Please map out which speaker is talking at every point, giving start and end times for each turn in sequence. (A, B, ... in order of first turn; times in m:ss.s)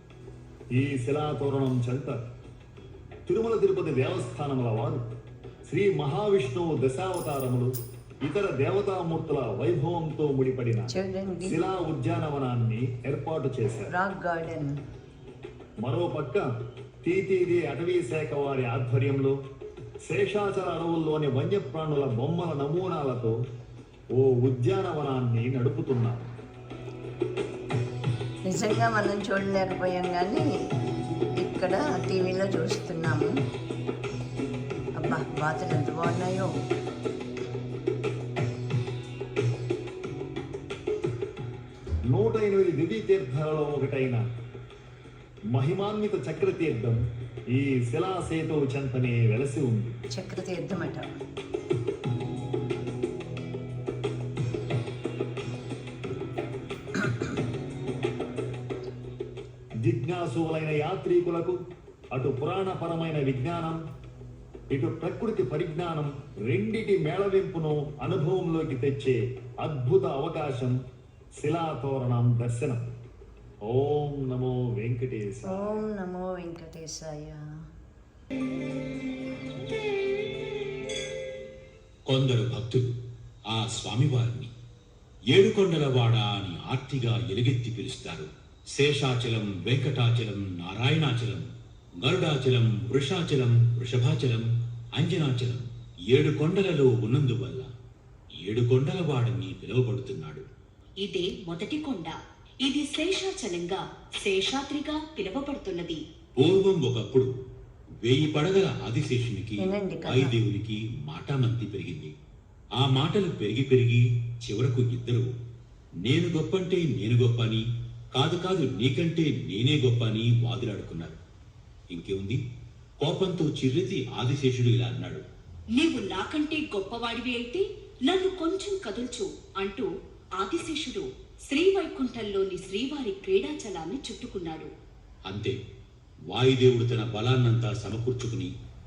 0:00.7-0:02.2 A
0:03.3-0:05.0 A
0:05.7-0:07.7 A
0:08.2-0:10.9 A
0:10.9-0:11.6 B
0:11.4-0:13.9 A
0:13.9-0:14.8 B
0:15.8-0:16.5 A
0:17.0-0:19.4 A
0:20.1-0:23.4 A
0:24.2-0:26.3 A
0:28.5-0:30.4 B
0:31.4-0:33.3 B
0:35.0-0:36.5 B
0:42.1-0:44.2 A
0:45.5-0:47.0 A
0:47.5-0:49.9 A
0:50.1-0:51.0 B
0:59.8-1:01.6 A
1:02.1-1:03.8 A
1:04.7-1:10.8 A
1:11.4-1:12.8 A
1:13.7-1:15.8 A
1:15.5-1:17.4 B
1:22.1-1:22.9 C
1:23.5-1:24.5 C
1:25.3-1:31.5 C
1:32.0-1:34.5 C
1:35.0-1:37.7 C
1:38.4-1:40.4 C
1:41.0-1:46.0 D
1:46.4-1:47.3 C
1:48.0-1:52.1 C
1:49.6-1:50.3 B
1:52.8-1:55.3 C
1:56.0-1:57.6 C
1:58.2-2:01.2 C
2:01.9-2:02.4 C
2:03.0-2:05.2 C
2:05.8-2:09.9 D
2:10.4-2:14.7 D
2:15.3-2:15.6 C
2:16.3-2:18.5 C